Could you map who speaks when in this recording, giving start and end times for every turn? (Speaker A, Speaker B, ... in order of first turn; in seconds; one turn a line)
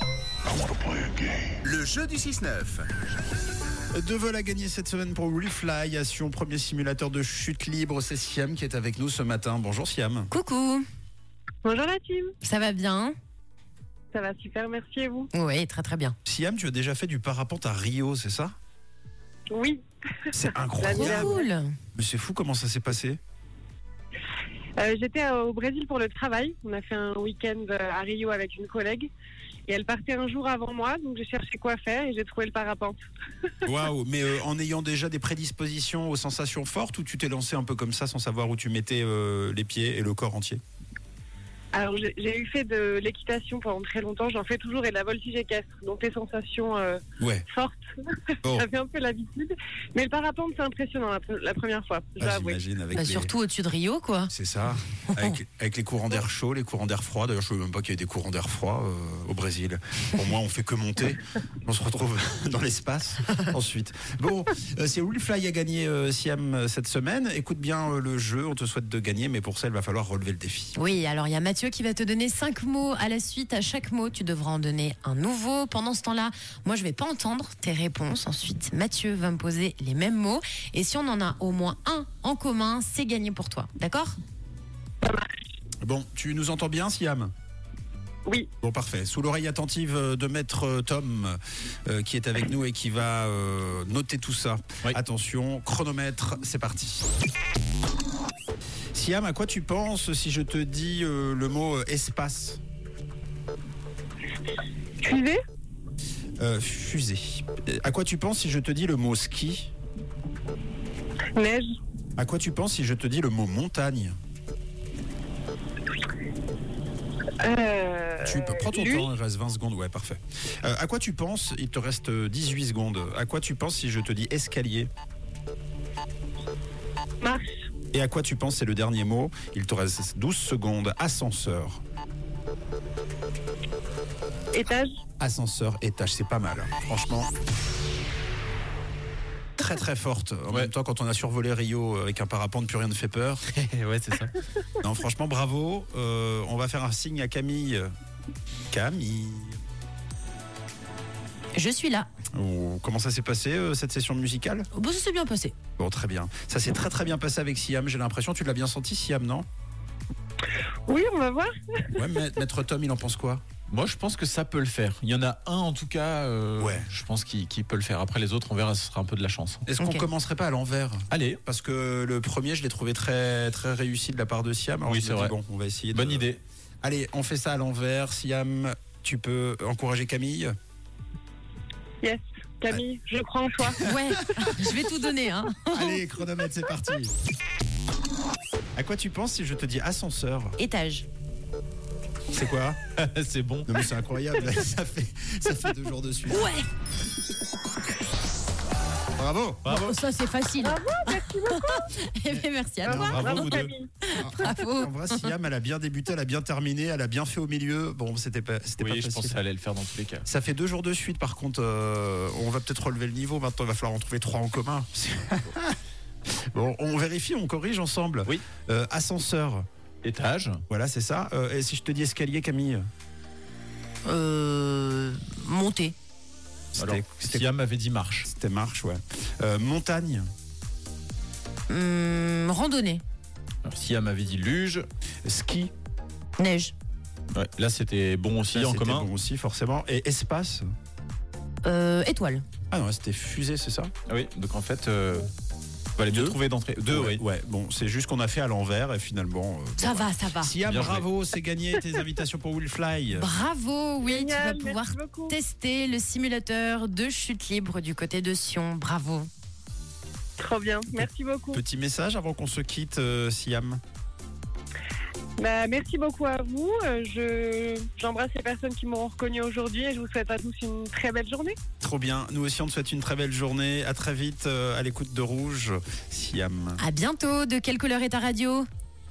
Speaker A: 1.6-2.8
Speaker A: 3.9-10.3
Speaker B: 10.3-10.8
Speaker C: 11.6-12.3
Speaker B: 12.4-13.1
Speaker C: 14.1-15.3
Speaker B: 15.3-16.1
Speaker A: 16.2-18.5
Speaker C: 19.5-19.8
Speaker A: 20.3-21.4
Speaker C: 20.8-21.5
Speaker B: 20.9-21.7
Speaker A: 21.9-23.2
Speaker C: 24.8-29.1
Speaker C: 29.7-33.0
Speaker A: 33.6-40.6
Speaker C: 41.7-52.6
Speaker A: 47.2-47.4
Speaker A: 52.2-53.3
Speaker B: 52.9-54.3
Speaker A: 54.3-70.8
Speaker B: 55.0-55.4
Speaker B: 70.8-84.2
Speaker C: 85.0-85.3
Speaker A: 85.8-87.3
Speaker A: 88.6-97.1
Speaker A: 98.9-102.6
Speaker C: 105.0-105.4
Speaker A: 106.4-109.7
Speaker C: 111.3-111.7
Speaker A: 112.2-114.1
Speaker C: 117.4-119.1
Speaker A: 118.2-124.9
Speaker C: 127.2-127.5
Speaker A: 127.9-131.8
Speaker C: 134.5-134.9
Speaker A: 135.2-137.3
Speaker A: 139.6-143.4
Speaker D: 143.5-144.3
Speaker A: 144.8-147.9
Speaker A: 148.7-149.6
Speaker B: 151.6-152.1
Speaker A: 152.3-154.7
Speaker B: 154.7-155.6
Speaker A: 155.8-159.4
Speaker C: 160.9-162.0
Speaker A: 161.9-163.4
Speaker D: 163.7-169.6
Speaker A: 166.6-166.9
Speaker A: 169.7-176.3
Speaker B: 169.8-170.1
Speaker D: 171.1-171.4
Speaker D: 174.8-175.3
Speaker D: 175.9-176.4
Speaker A: 176.8-180.5
Speaker C: 182.0-183.8
Speaker A: 183.7-184.5
Speaker B: 183.8-186.0
Speaker A: 185.7-187.1
Speaker A: 188.8-190.6
Speaker B: 190.6-191.1
Speaker A: 192.3-192.8
Speaker D: 193.0-193.8
Speaker A: 193.7-196.5
Speaker B: 196.3-196.7
Speaker A: 199.2-199.8
Speaker D: 199.6-200.0
Speaker B: 199.7-205.3
Speaker C: 200.6-201.9
Speaker A: 202.8-209.4
Speaker C: 202.9-203.9
Speaker D: 203.0-203.6
Speaker D: 208.8-210.2
Speaker A: 210.2-215.8
Speaker A: 216.5-219.7
Speaker D: 220.0-220.6
Speaker A: 220.7-222.8
Speaker B: 224.1-225.9
Speaker A: 226.7-227.5
Speaker D: 226.8-228.3
Speaker A: 228.2-230.2
Speaker B: 231.7-233.0
Speaker D: 233.6-234.9
Speaker A: 235.2-235.7
Speaker B: 236.4-236.7
Speaker D: 237.3-239.1
Speaker A: 238.5-240.7
Speaker B: 241.6-242.4
Speaker A: 242.7-243.9
Speaker D: 244.1-245.3
Speaker D: 246.0-247.2
Speaker A: 246.9-253.3
Speaker B: 249.8-250.5
Speaker D: 250.7-251.0
Speaker B: 253.1-259.3
Speaker C: 254.0-255.4
Speaker C: 260.4-261.6
Speaker A: 261.5-263.8
Speaker C: 265.4-271.6
Speaker A: 271.8-276.8
Speaker B: 276.8-278.7